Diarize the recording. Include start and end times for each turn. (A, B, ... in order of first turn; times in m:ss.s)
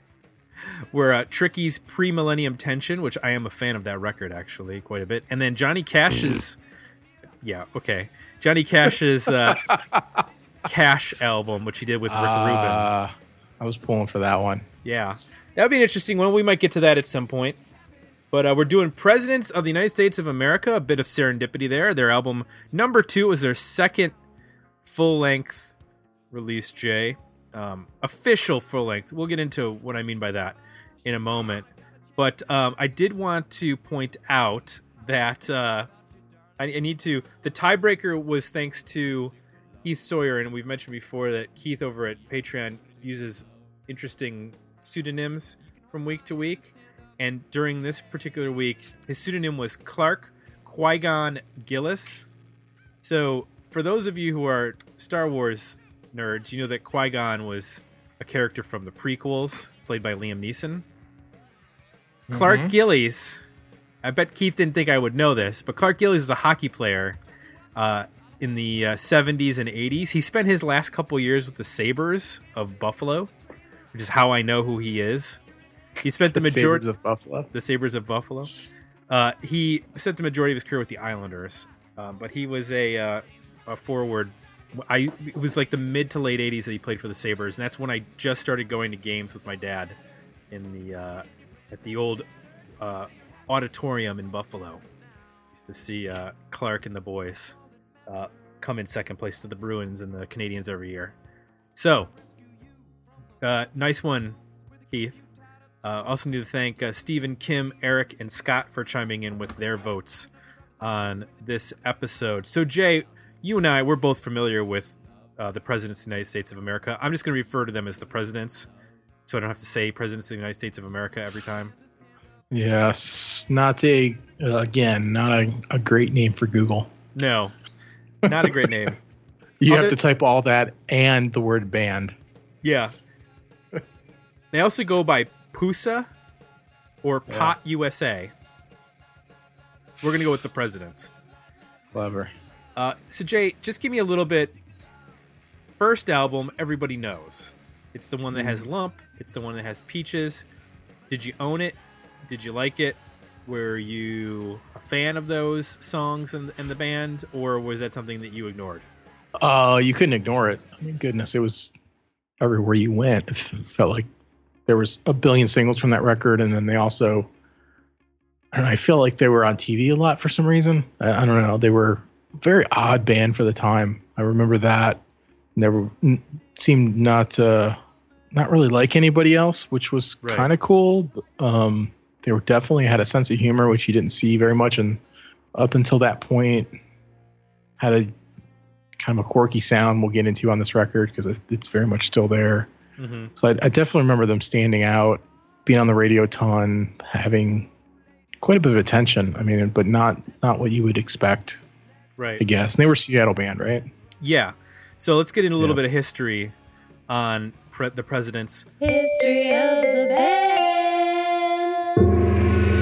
0:00.6-0:06.6 A
0:07.4-0:09.7 A
0:09.5-0:10.0 B
0:10.6-0:12.9 A
0:12.1-0:14.6 B
0:14.8-0:17.6 A
0:18.3-0:24.1 A
0:24.8-0:25.7 A
0:26.3-0:35.9 A
0:36.6-0:52.2 A
0:53.0-1:00.8 A
1:02.3-1:02.7 B
1:02.3-1:03.4 A
1:04.0-1:07.2 A
1:07.8-1:13.3 A
1:13.9-1:15.4 A
1:16.0-1:16.8 A
1:16.3-1:17.5 B
1:17.5-1:18.5 A
1:19.1-1:30.0 A
1:30.5-1:32.2 A
1:32.8-1:34.8 A
1:35.6-1:37.6 A
1:38.1-1:41.1 A
1:41.8-1:42.1 A
1:43.4-1:44.4 A
1:44.9-1:45.2 A
1:45.8-1:50.3 A
1:50.8-1:58.7 A
1:59.2-2:01.7 A
2:02.5-2:06.9 B
2:07.1-2:07.5 A
2:08.2-2:09.0 A
2:08.2-2:08.7 B
2:09.6-2:12.2 B
2:09.7-2:10.0 A
2:12.6-2:12.9 A
2:14.5-2:16.1 A
2:17.0-2:18.3 A
2:17.3-2:17.5 B
2:20.0-2:21.1 A
2:21.9-2:22.3 B
2:22.8-2:24.5 A
2:25.8-2:30.4 A
2:28.3-2:28.7 B
2:31.1-2:31.8 A
2:32.3-2:38.8 A
2:39.4-2:41.7 B
2:42.4-2:44.1 B
2:44.7-2:47.3 B
2:48.5-2:55.0 B
2:55.6-2:57.8 B
2:58.3-3:05.0 B
3:00.2-3:00.5 A
3:05.5-3:06.7 B
3:07.8-3:08.1 B
3:09.0-3:12.7 B
3:13.0-3:13.3 A
3:13.3-3:17.7 B
3:18.4-3:21.6 B
3:22.2-3:22.4 A
3:22.4-3:23.9 B
3:24.2-3:26.5 A
3:27.1-3:28.6 A
3:28.8-3:31.6 C